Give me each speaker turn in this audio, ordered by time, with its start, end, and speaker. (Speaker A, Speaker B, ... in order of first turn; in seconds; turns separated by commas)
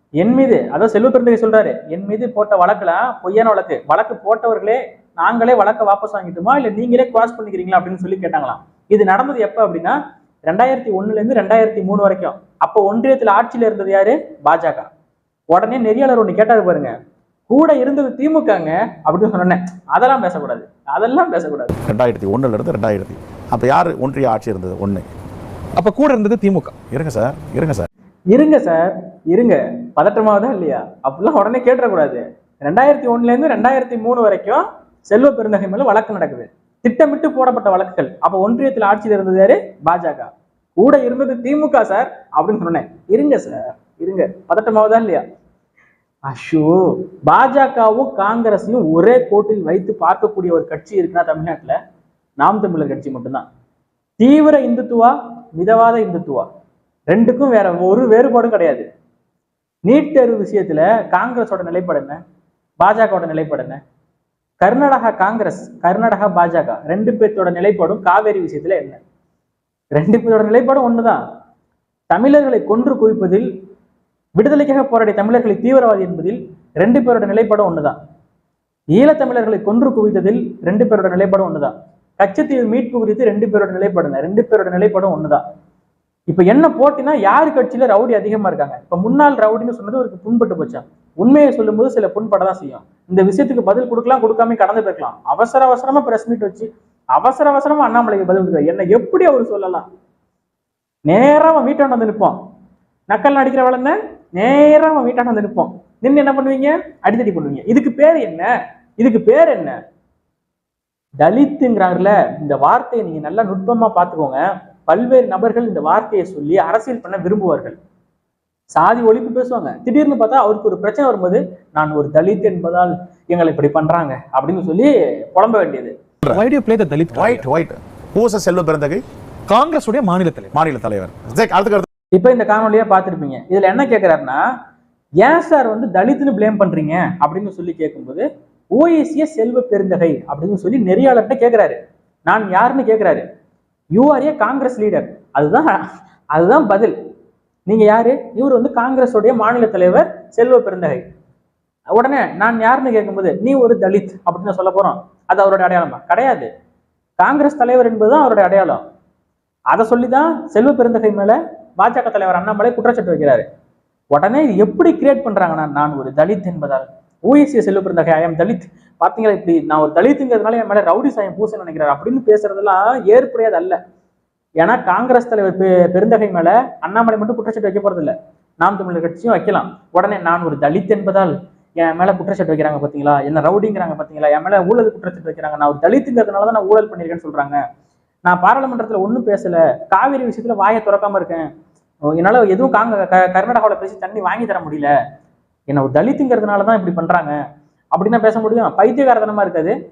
Speaker A: 0.2-14.9, Speaker A: 15.5-16.9, Speaker A: 17.5-21.7, Speaker B: 21.9-25.1, Speaker C: 25.8-26.7, Speaker B: 26.9-27.9, Speaker A: 28.3-45.2, Speaker A: 46.3-51.8, Speaker A: 52.4-53.5, Speaker A: 54.2-56.5, Speaker A: 57.1-58.9, Speaker A: 59.9-62.2, Speaker A: 62.8-63.8, Speaker A: 64.6-69.0, Speaker A: 70.0-71.2, Speaker A: 72.1-73.5, Speaker A: 74.4-78.0, Speaker A: 78.9-85.4, Speaker A: 86.3-99.8, Speaker A: 101.1-102.4, Speaker A: 103.1-109.8, Speaker A: 111.2-117.8, Speaker A: 118.7-125.9, Speaker C: 126.3-127.4, Speaker B: 127.1-129.0, Speaker C: 129.5-130.5, Speaker B: 130.5-131.8, Speaker A: 132.1-134.4, Speaker A: 135.2-143.2, Speaker A: 143.9-145.8, Speaker A: 146.3-146.9, Speaker A: 147.7-151.0, Speaker A: 151.9-156.5, Speaker A: 157.2-158.8, Speaker A: 159.7-163.4, Speaker A: 164.1-173.8, Speaker A: 174.6-187.6, Speaker A: 188.2-191.5, Speaker A: 192.1-194.9, Speaker A: 195.7-197.4, Speaker A: 197.9-199.7